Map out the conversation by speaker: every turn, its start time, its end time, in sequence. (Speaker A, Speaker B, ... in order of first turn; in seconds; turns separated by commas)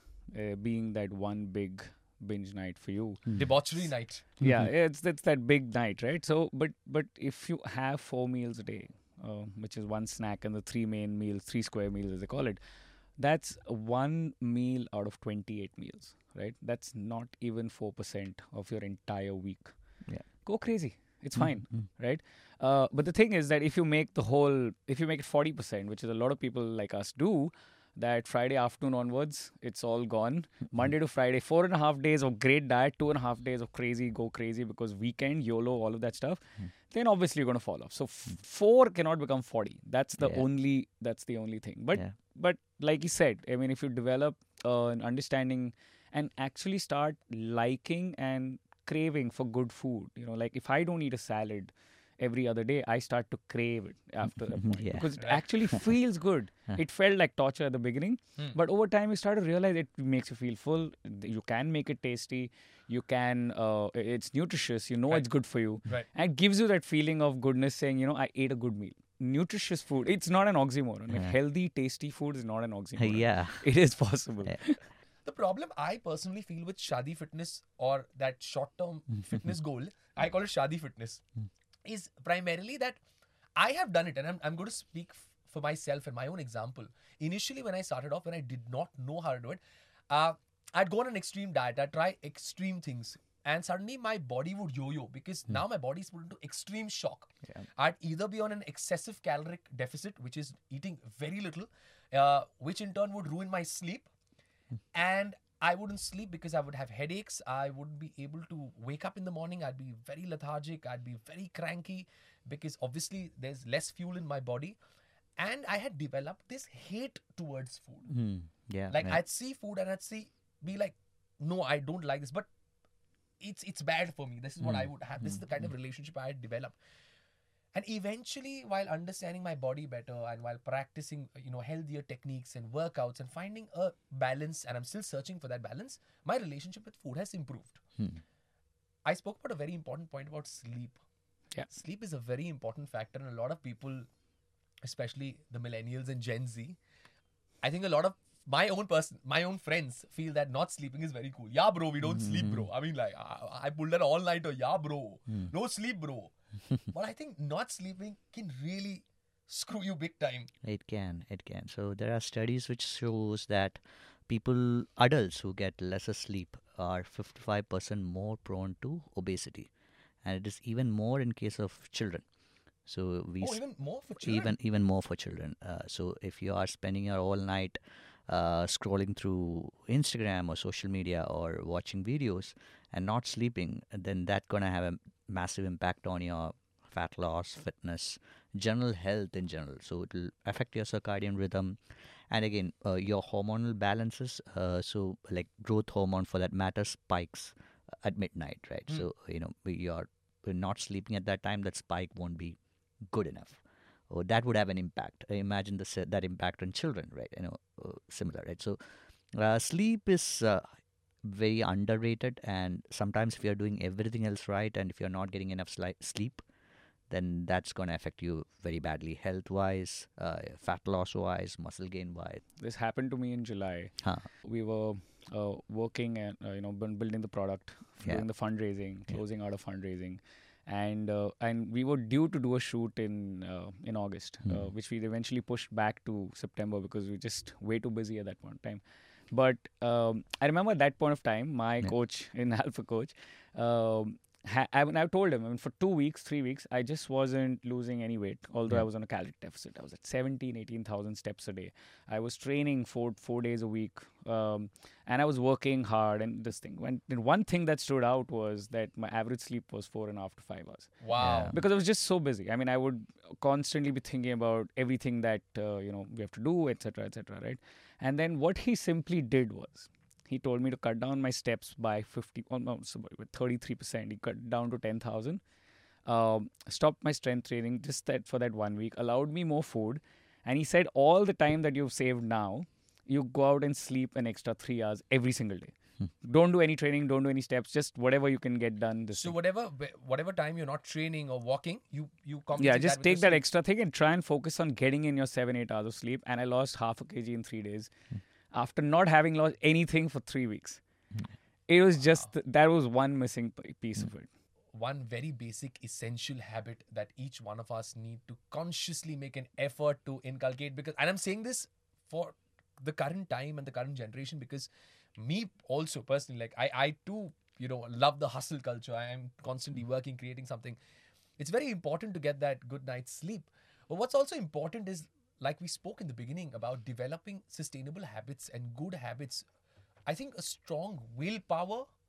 Speaker A: 0.3-3.3, Speaker B: 3.4-4.3, Speaker A: 4.4-12.6, Speaker A: 13.2-74.9, Speaker C: 21.4-21.9, Speaker C: 40.2-40.5, Speaker C: 54.4-55.8, Speaker B: 55.2-55.4, Speaker C: 71.1-71.3, Speaker C: 73.0-73.7, Speaker B: 75.2-81.2, Speaker B: 81.8-83.0, Speaker B: 83.6-104.1, Speaker B: 104.9-114.8, Speaker B: 115.4-118.1, Speaker C: 118.1-119.2, Speaker B: 118.9-122.5, Speaker B: 123.4-126.8, Speaker C: 124.6-125.5, Speaker B: 127.7-137.8, Speaker B: 139.1-141.0, Speaker B: 141.7-144.1, Speaker B: 144.8-146.8, Speaker B: 147.6-156.3, Speaker C: 152.0-152.7, Speaker B: 156.9-160.5, Speaker C: 160.6-169.7, Speaker C: 170.2-172.2, Speaker C: 172.9-173.6, Speaker B: 173.4-174.5, Speaker C: 174.2-202.6, Speaker C: 203.1-208.8, Speaker C: 209.3-216.4, Speaker C: 217.1-222.4, Speaker A: 222.6-275.4, Speaker C: 224.0-224.3, Speaker B: 261.0-261.6, Speaker C: 261.2-261.6, Speaker A: 276.1-289.4, Speaker B: 289.2-293.4, Speaker A: 292.6-297.9, Speaker A: 298.5-300.8, Speaker A: 301.7-304.3, Speaker B: 304.7-320.8, Speaker B: 321.4-329.5, Speaker B: 330.1-331.9